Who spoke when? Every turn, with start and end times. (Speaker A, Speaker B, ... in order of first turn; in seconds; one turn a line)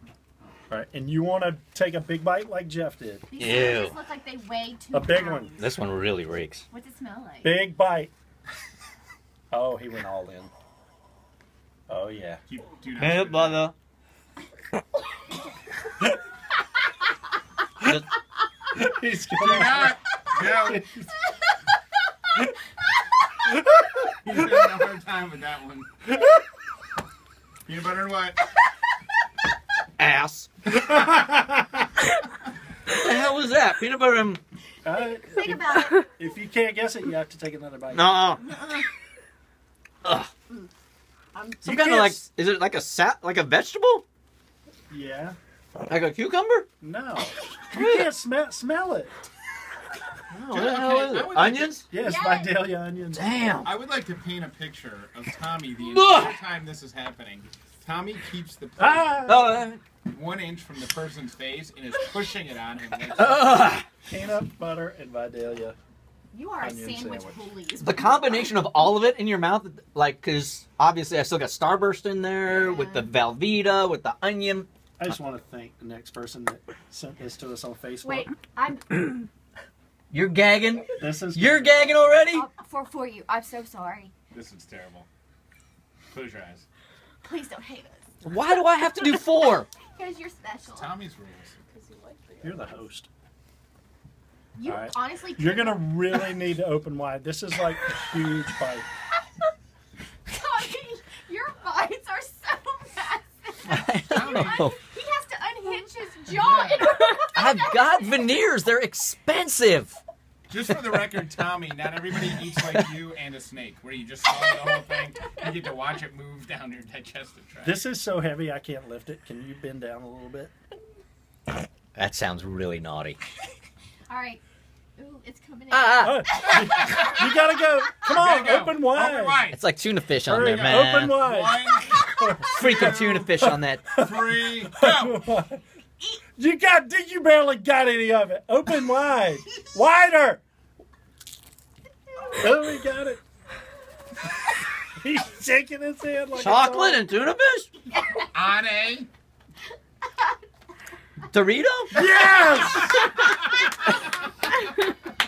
Speaker A: 0.7-3.3
Speaker B: 3.3-5.8
Speaker C: 3.4-4.0
Speaker A: 4.9-5.5
Speaker C: 5.6-6.7
Speaker B: 6.7-7.5
Speaker A: 7.4-8.1
Speaker A: 9.5-10.5
Speaker A: 11.9-12.4
Speaker D: 12.5-13.7
Speaker C: 12.9-13.7
Speaker A: 18.7-21.1
Speaker D: 19.3-20.8
Speaker D: 24.2-25.9
Speaker D: 27.6-28.4
Speaker C: 30.0-30.7
Speaker C: 32.9-34.4
Speaker A: 34.8-38.2
Speaker B: 34.9-36.1
Speaker C: 37.9-38.4
Speaker B: 38.4-38.9
Speaker C: 40.0-40.3
Speaker B: 41.3-42.0
Speaker C: 41.6-44.0
Speaker A: 41.6-42.2
Speaker A: 44.9-45.4
Speaker C: 45.9-46.7
Speaker A: 46.8-49.1
Speaker C: 47.7-48.1
Speaker C: 50.3-51.9
Speaker D: 50.5-51.8
Speaker A: 51.9-53.3
Speaker B: 51.9-52.7
Speaker C: 53.1-53.7
Speaker D: 53.6-59.5
Speaker C: 55.8-56.4
Speaker A: 58.8-59.6
Speaker C: 59.2-59.8
Speaker D: 60.1-63.8
Speaker C: 63.1-63.8
Speaker A: 64.0-65.8
Speaker B: 66.3-68.3
Speaker A: 66.6-67.4
Speaker C: 67.8-74.7
Speaker B: 72.4-73.1
Speaker A: 75.0-78.3
Speaker B: 78.0-79.3
Speaker C: 80.1-82.5
Speaker A: 81.0-82.2
Speaker B: 82.3-84.1
Speaker D: 84.3-85.1
Speaker D: 86.1-86.6
Speaker B: 87.2-88.4
Speaker C: 88.2-89.7
Speaker B: 89.9-90.9
Speaker D: 90.7-92.5
Speaker A: 92.4-93.1
Speaker B: 94.5-96.3
Speaker A: 94.6-98.9
Speaker B: 100.3-107.8
Speaker C: 103.7-104.8
Speaker D: 104.1-104.7
Speaker D: 106.3-106.9
Speaker C: 107.3-110.0
Speaker D: 110.5-117.8
Speaker A: 117.6-120.5
Speaker C: 121.9-123.2
Speaker B: 124.1-124.4
Speaker B: 125.0-127.0
Speaker C: 125.7-126.5
Speaker A: 126.0-129.4
Speaker D: 126.5-127.2
Speaker D: 128.1-129.6
Speaker C: 129.5-131.2
Speaker A: 130.2-135.6
Speaker D: 130.4-133.3
Speaker C: 132.4-133.8
Speaker D: 133.9-135.2
Speaker A: 136.3-140.4
Speaker A: 142.3-143.2
Speaker A: 145.0-147.0
Speaker C: 146.4-147.7
Speaker D: 148.3-149.1
Speaker C: 151.3-152.0
Speaker A: 151.9-153.1
Speaker D: 152.8-153.1